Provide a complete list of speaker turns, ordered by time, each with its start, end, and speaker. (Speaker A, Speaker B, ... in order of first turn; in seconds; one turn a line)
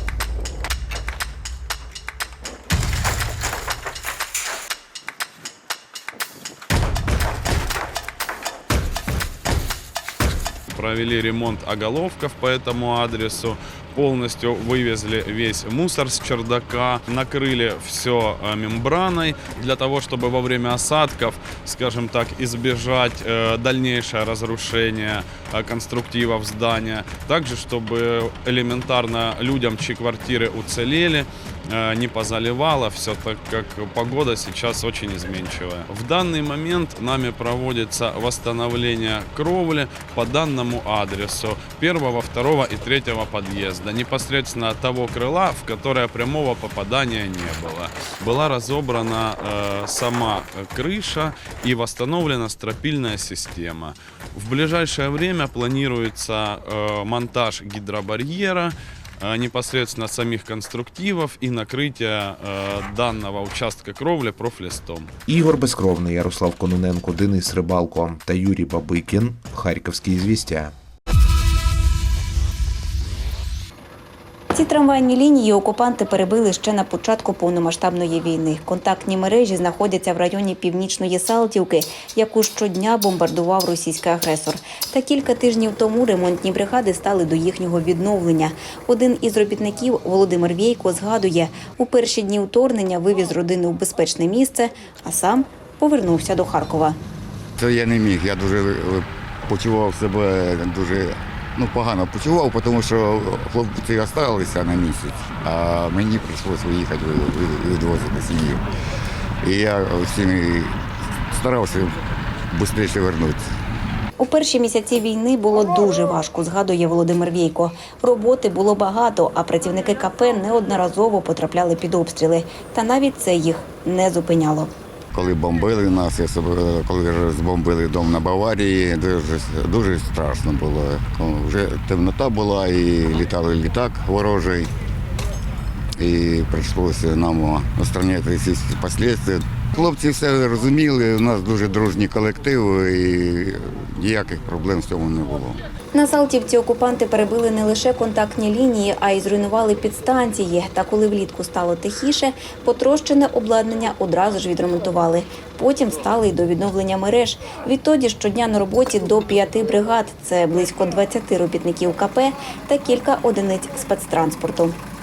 Speaker A: 10.7-65.1
Speaker B: 65.3-70.7
Speaker C: 74.5-97.0
Speaker D: 97.6-108.7
Speaker D: 109.4-113.5
Speaker C: 114.2-124.7
Speaker D: 125.1-134.7
Speaker D: 136.0-145.6
Speaker C: 145.9-164.8